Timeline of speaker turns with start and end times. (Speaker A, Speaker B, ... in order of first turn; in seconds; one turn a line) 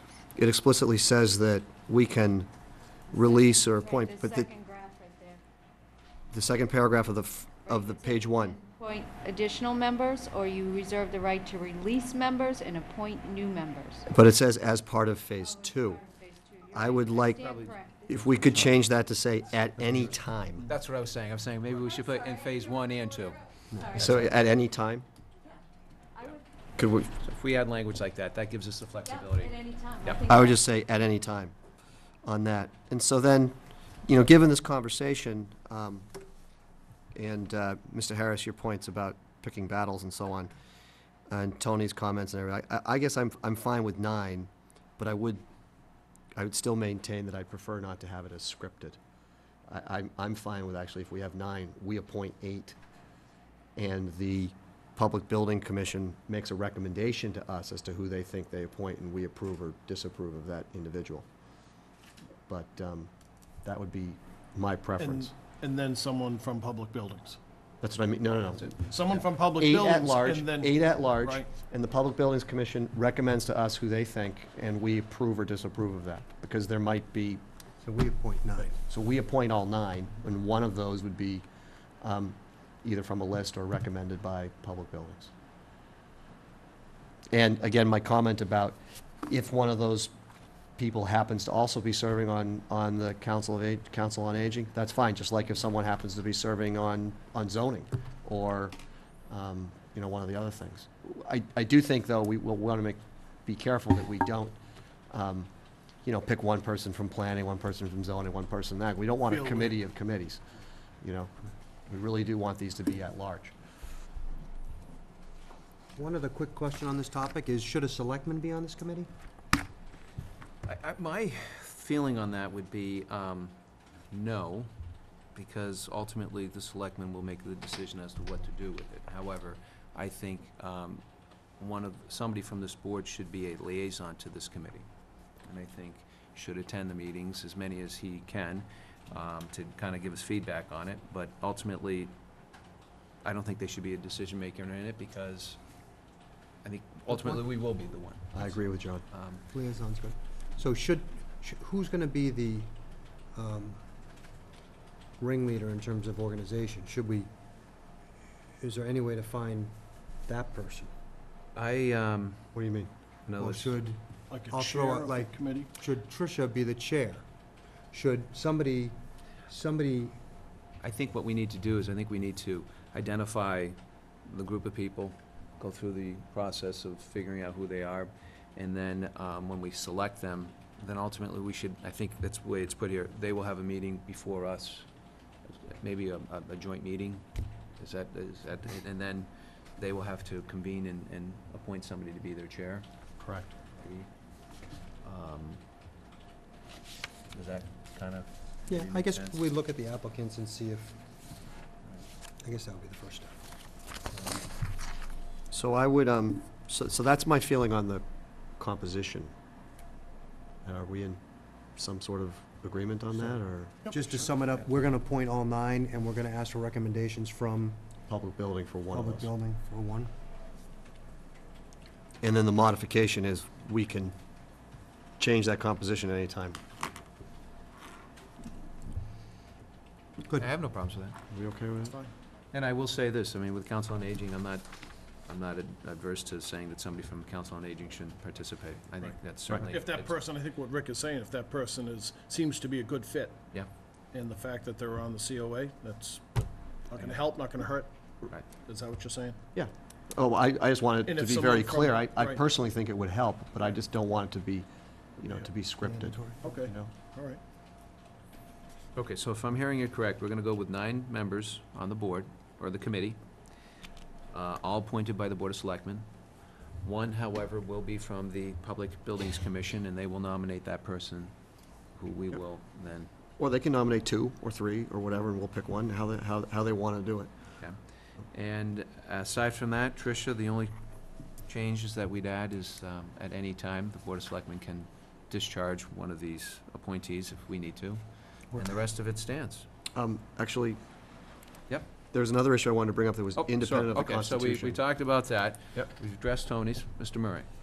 Speaker A: 0.4-2.5
Speaker A: 3.1-4.5
Speaker B: 3.1-5.4
Speaker A: 6.3-8.6
Speaker B: 7.6-14.1
Speaker A: 14.1-16.0
Speaker B: 15.4-18.4
Speaker A: 16.7-17.5
Speaker C: 17.3-18.7
Speaker A: 18.1-20.7
Speaker C: 20.7-24.4
Speaker B: 21.9-24.5
Speaker A: 23.9-25.1
Speaker B: 26.1-26.5
Speaker A: 26.8-27.1
Speaker C: 27.2-30.2
Speaker B: 29.0-30.6
Speaker A: 30.3-31.6
Speaker A: 32.2-33.5
Speaker A: 34.1-36.1
Speaker A: 37.1-40.5
Speaker A: 41.3-45.4
Speaker A: 46.4-49.0
Speaker A: 49.7-52.8
Speaker A: 53.8-61.3
Speaker A: 62.5-63.1
Speaker A: 63.6-65.3
Speaker D: 65.0-67.4
Speaker A: 67.8-69.0
Speaker D: 68.8-71.5
Speaker A: 69.5-77.4
Speaker E: 77.8-78.8
Speaker A: 78.9-81.5
Speaker A: 82.0-85.3
Speaker A: 87.3-90.1
Speaker A: 90.8-98.8
Speaker A: 99.3-104.5
Speaker A: 105.1-105.5
Speaker A: 106.0-110.4
Speaker A: 111.0-111.3
Speaker A: 111.9-113.5
Speaker E: 116.0-119.1
Speaker C: 120.7-123.6
Speaker C: 124.1-124.7
Speaker C: 125.3-131.0
Speaker C: 131.6-134.9
Speaker C: 135.4-142.1
Speaker C: 143.2-145.6
Speaker C: 146.6-149.4
Speaker E: 147.1-147.4
Speaker A: 148.3-149.0
Speaker E: 149.5-152.7
Speaker E: 153.3-153.8
Speaker E: 155.2-157.3
Speaker E: 158.6-159.7
Speaker E: 160.2-160.9
Speaker C: 161.6-162.5
Speaker A: 162.6-162.9
Speaker C: 163.3-163.8
Speaker E: 163.4-167.2
Speaker D: 164.3-165.7
Speaker E: 167.9-169.0
Speaker E: 169.5-170.2
Speaker C: 170.8-184.9
Speaker C: 185.4-187.3
Speaker C: 187.8-192.9
Speaker D: 193.2-193.5
Speaker C: 193.7-194.1
Speaker C: 195.0-195.6
Speaker C: 197.3-199.4
Speaker E: 198.7-201.0
Speaker E: 202.4-203.3
Speaker A: 205.5-208.0
Speaker A: 208.6-209.3
Speaker A: 210.6-211.2
Speaker A: 211.8-213.8
Speaker D: 213.8-214.3
Speaker E: 213.9-217.8
Speaker A: 218.1-219.3
Speaker E: 218.9-220.1
Speaker A: 222.2-224.2
Speaker A: 225.2-226.6
Speaker C: 230.3-231.2
Speaker A: 231.3-231.9
Speaker D: 231.9-232.1
Speaker C: 232.5-234.7
Speaker C: 235.2-240.1
Speaker D: 239.0-243.4
Speaker D: 244.1-247.9
Speaker D: 248.6-249.4
Speaker A: 249.5-254.7
Speaker D: 251.0-252.4
Speaker A: 255.2-256.9
Speaker E: 255.8-256.5
Speaker D: 256.4-257.4
Speaker C: 259.0-263.2
Speaker C: 264.3-266.1
Speaker C: 266.8-271.3
Speaker C: 271.9-273.1
Speaker A: 273.4-277.3
Speaker C: 278.3-280.7
Speaker C: 281.4-288.0
Speaker C: 288.5-289.7
Speaker A: 289.9-290.8
Speaker A: 292.1-294.8
Speaker C: 293.4-297.5